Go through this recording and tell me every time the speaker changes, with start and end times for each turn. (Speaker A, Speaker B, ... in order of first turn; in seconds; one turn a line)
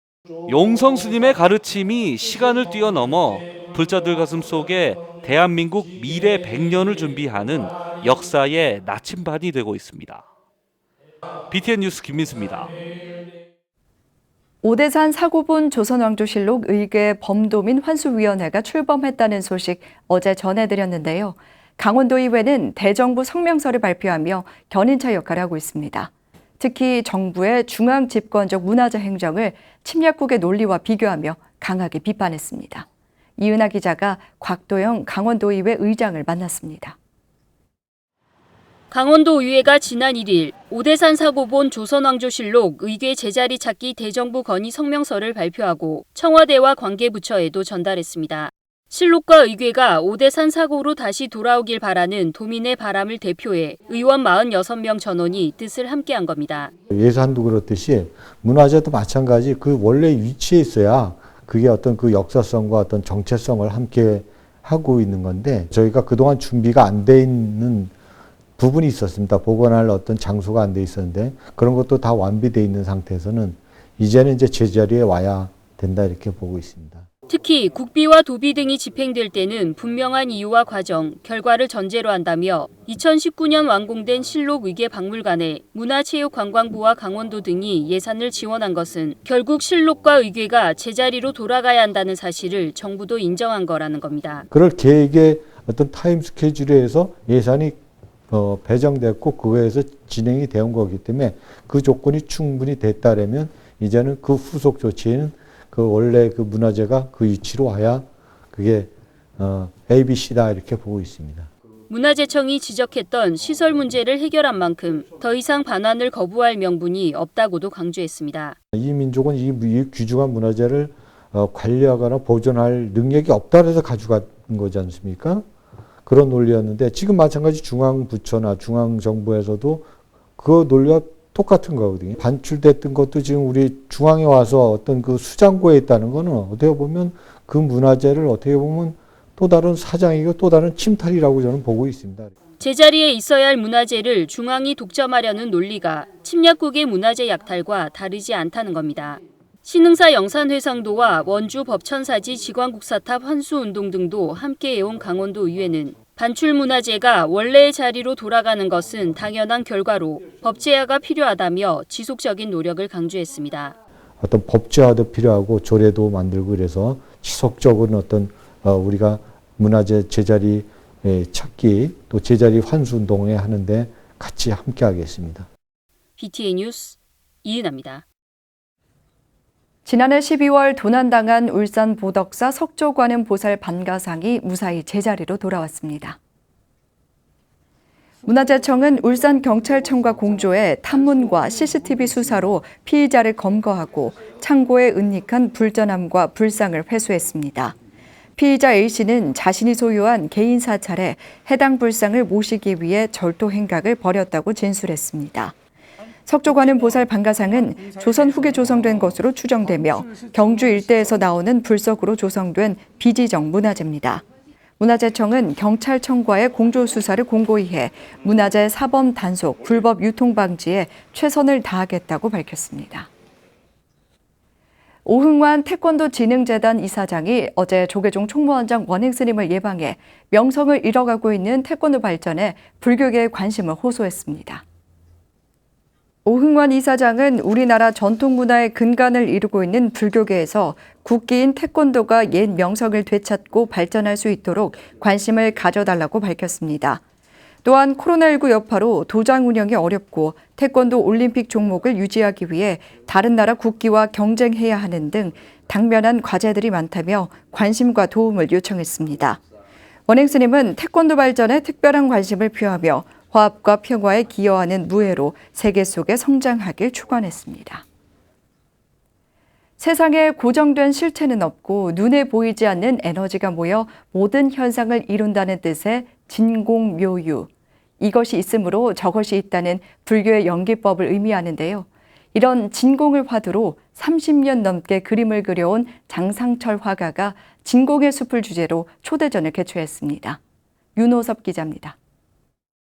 Speaker A: 0.5-10.3
Speaker A: 11.5-12.8
Speaker B: 14.6-32.9
Speaker B: 33.4-37.0
Speaker C: 38.9-56.7
Speaker D: 56.9-67.9
Speaker D: 68.6-77.1
Speaker C: 77.3-94.5
Speaker D: 94.5-111.5
Speaker C: 111.9-118.6
Speaker D: 118.7-125.5
Speaker D: 126.0-142.3
Speaker C: 142.6-163.8
Speaker D: 164.2-175.5
Speaker C: 176.2-178.1
Speaker B: 179.9-186.2
Speaker B: 188.2-197.8
Speaker B: 198.4-205.5
Speaker B: 206.3-214.2
Speaker B: 214.8-223.1
Speaker B: 225.1-234.6
Speaker B: 236.2-247.0
Speaker B: 247.6-259.4
Speaker B: 260.1-267.8
Speaker B: 269.8-290.4
Speaker B: 291.0-292.0